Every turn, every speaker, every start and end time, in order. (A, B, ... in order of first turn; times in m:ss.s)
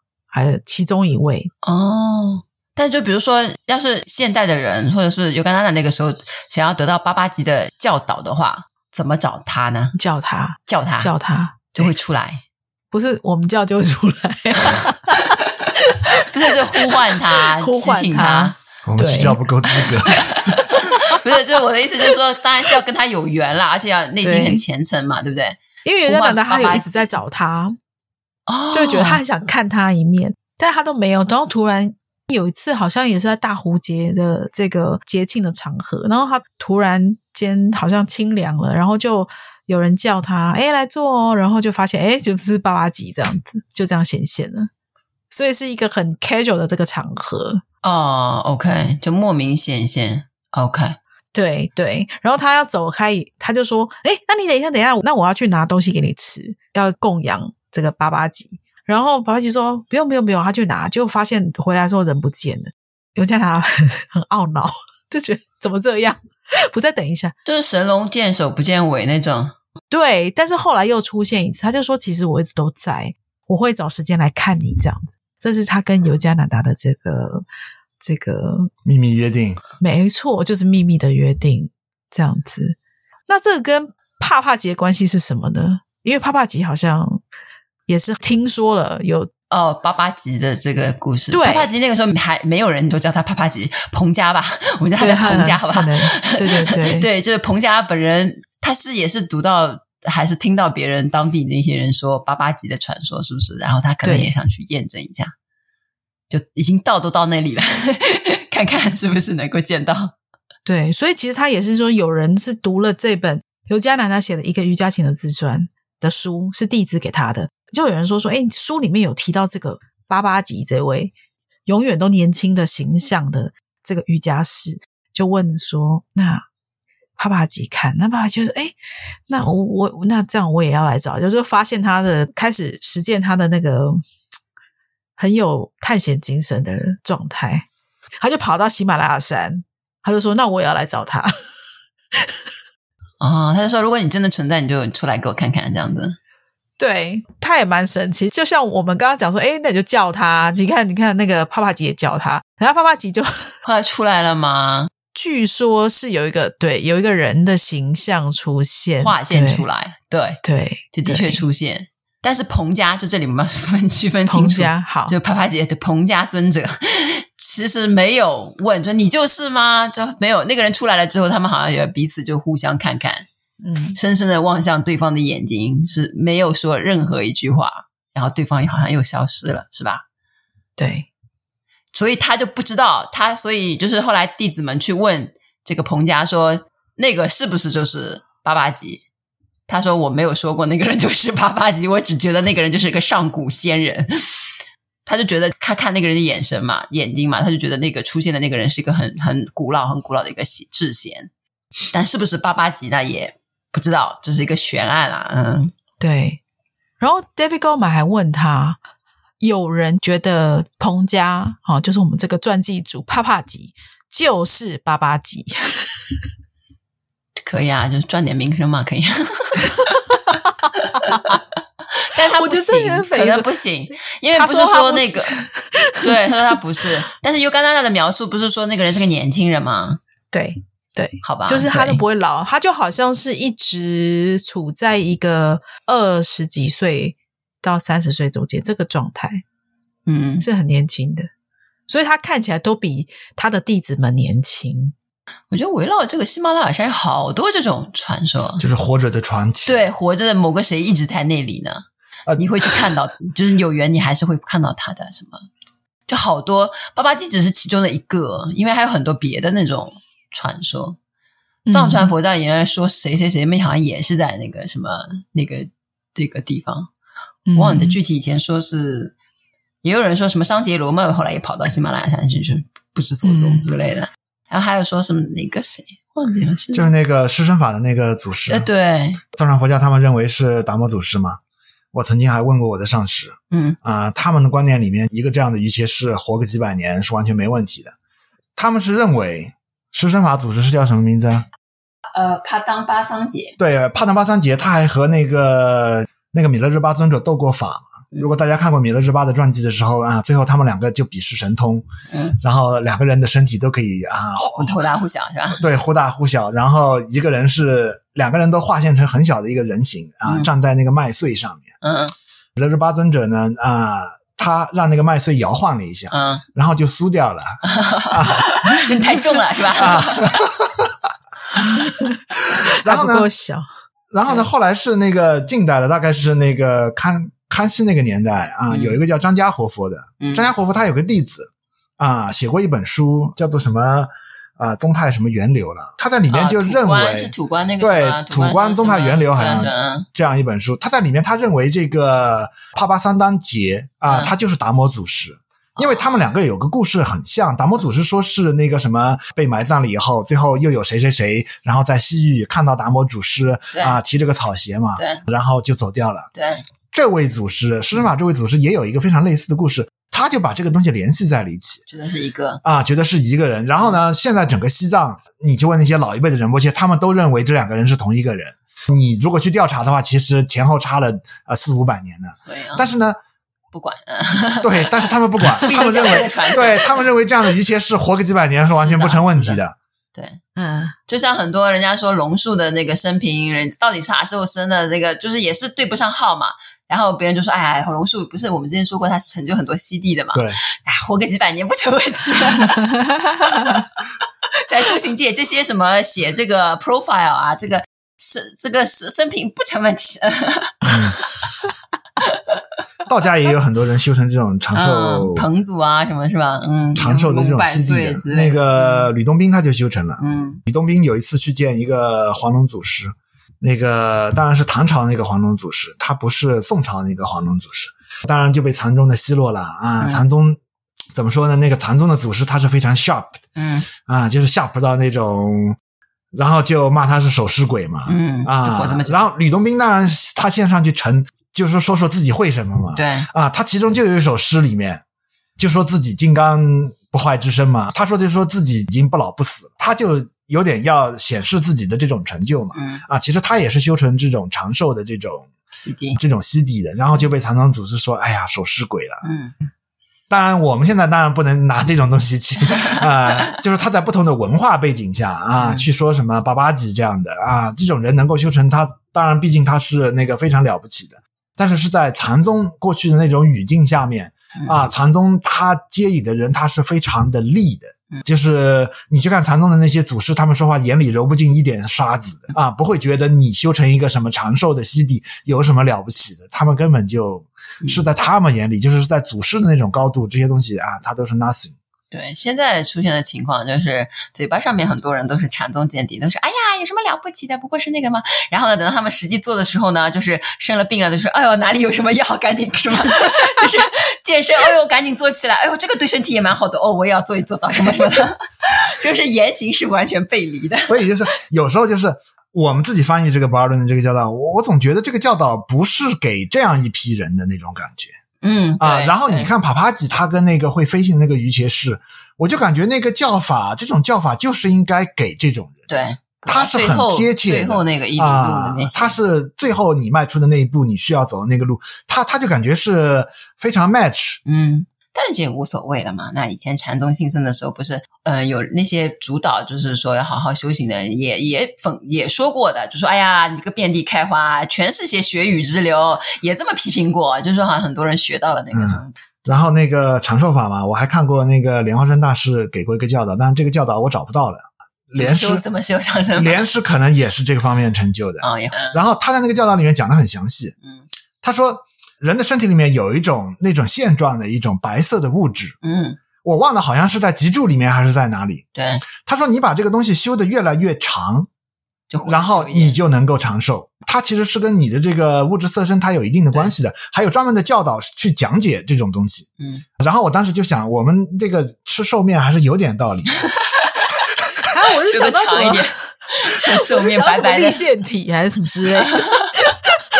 0:00.3-0:01.5 A
0:01.6-0:10.0 B
0:09.9-0:11.9 A
0:10.7-0:11.1 B
0:11.7-0:12.4 B
0:12.9-0:19.4 A
0:16.1-0:18.6 B
0:18.8-0:20.6 C
0:19.8-0:27.1 B
0:20.1-0:21.2 A
0:24.2-0:24.6 A
0:25.8-0:27.8 A
0:28.5-0:29.2 B
0:28.7-0:44.7 A
0:45.3-0:47.6 A
0:47.8-0:51.0 B
0:51.3-1:07.3 A
1:07.4-1:09.5 B
1:09.9-1:17.4 A
1:18.0-1:18.7 A
1:18.8-1:19.6 C
1:19.8-1:27.2 A
1:27.9-1:29.3 A
1:29.5-1:45.3 B
1:31.3-1:31.7 A
1:35.0-1:37.1 A
1:44.0-1:44.3 A
1:46.3-1:50.1 B
1:50.6-2:01.1 A
2:01.6-2:06.4 A
2:07.2-2:08.7 A
2:09.3-2:14.0 A
2:15.2-2:17.6 A
2:18.2-2:21.3 A
2:23.2-2:26.2 B
2:26.8-2:33.5 A
2:33.6-2:34.9 B
2:35.1-2:39.6 A
2:39.0-2:40.4 B
2:40.4-2:41.4 A
2:40.9-2:53.2 B
2:44.3-2:45.1 A
2:53.6-2:54.0 A
2:53.9-3:00.0 B
3:00.8-3:01.1 A
3:01.9-3:09.0 B
3:09.7-3:14.4 B
3:15.0-3:21.3 B
3:21.9-3:25.7 B
3:26.0-3:26.4 A
3:27.0-3:28.8 A
3:29.4-3:36.0 A
3:37.4-3:40.0 B
3:40.3-3:41.4 A
3:40.9-3:41.4 B
3:42.0-3:45.4 B
3:42.2-3:43.5 A
3:44.3-3:46.8 A
3:46.0-3:50.0 B
3:50.3-3:59.4 A
3:51.2-3:52.0 B
4:00.0-4:00.4 B
4:00.4-4:01.3 A
4:01.9-4:04.9 A
4:05.5-4:08.6 B
4:08.6-4:09.8 C
4:09.6-4:11.8 B
4:12.3-4:12.8 C
4:12.4-4:15.5 B
4:16.1-4:21.0 B
4:21.7-4:22.1 A
4:21.7-4:26.9 B
4:27.5-4:28.0 A
4:27.6-4:29.1 B
4:29.8-4:36.9 B
4:33.2-4:33.7 A
4:36.7-4:38.7 C
4:38.5-4:39.2 B
4:39.3-4:41.4 C
4:41.9-4:47.9 C
4:43.5-4:43.8 B
4:48.6-4:51.4 C
4:52.1-4:53.6 B
4:53.6-5:01.9 C
5:02.1-5:02.4 B
5:02.4-5:04.8 C
5:04.6-5:05.6 B
5:05.5-5:11.7 C
5:11.8-5:12.1 B
5:12.6-5:19.0 C
5:16.1-5:16.4 B
5:17.6-5:20.4 B
5:19.7-5:20.9 C
5:21.6-5:23.7 A
5:22.8-5:23.3 C
5:24.1-5:56.3 C
5:28.7-5:29.0 B
5:30.2-5:30.5 B
5:36.3-5:40.1 B
5:44.1-5:44.3 B
5:45.8-5:46.2 B
5:53.7-5:54.0 B
5:55.0-5:55.2 B
5:56.3-5:56.6 B
5:56.9-6:01.8 C
6:01.9-6:02.6 B
6:02.6-6:13.2 C
6:12.4-6:12.9 B
6:13.7-6:17.1 B
6:14.6-6:19.7 C
6:18.7-6:19.6 B
6:20.1-6:20.4 B
6:20.6-6:21.0 A
6:21.1-6:32.9 B
6:32.7-6:33.8 A
6:34.6-6:41.2 B
6:40.8-6:41.2 C
6:42.2-6:42.6 B
6:43.1-6:45.4 C
6:44.7-6:49.1 B
6:46.9-7:00.6 C
6:50.2-6:50.6 B
7:00.0-7:00.2 B
7:01.1-7:03.4 C
7:03.6-7:03.9 B
7:04.0-7:05.8 C
7:06.3-7:15.0 C
7:08.1-7:09.2 B
7:13.0-7:13.3 B
7:15.6-7:25.5 C
7:22.7-7:23.0 B
7:25.7-7:26.2 B
7:26.2-7:29.2 C
7:29.2-7:29.5 B
7:30.3-8:01.8 C
7:35.6-7:35.9 B
7:44.6-7:44.8 B
8:02.1-8:21.1 B
8:20.9-8:28.1 C
8:28.4-8:29.5 B
8:28.8-8:35.8 C
8:35.9-8:39.2 B
8:36.4-8:44.4 C
8:44.4-8:59.1 B
8:58.7-9:05.6 C
9:05.2-9:06.7 B
9:06.4-9:10.7 C
9:08.4-9:09.0 B
9:11.4-9:15.8 C
9:15.8-9:16.2 B
9:16.4-9:18.6 C
9:18.7-9:19.0 B
9:19.2-9:21.5 C
9:22.1-9:23.0 B
9:22.3-9:29.5 C
9:29.6-9:29.8 B
9:30.0-9:33.5 C
9:33.4-9:34.3 B
9:34.6-9:39.9 A
9:35.0-9:37.8 B
9:38.9-9:39.8 B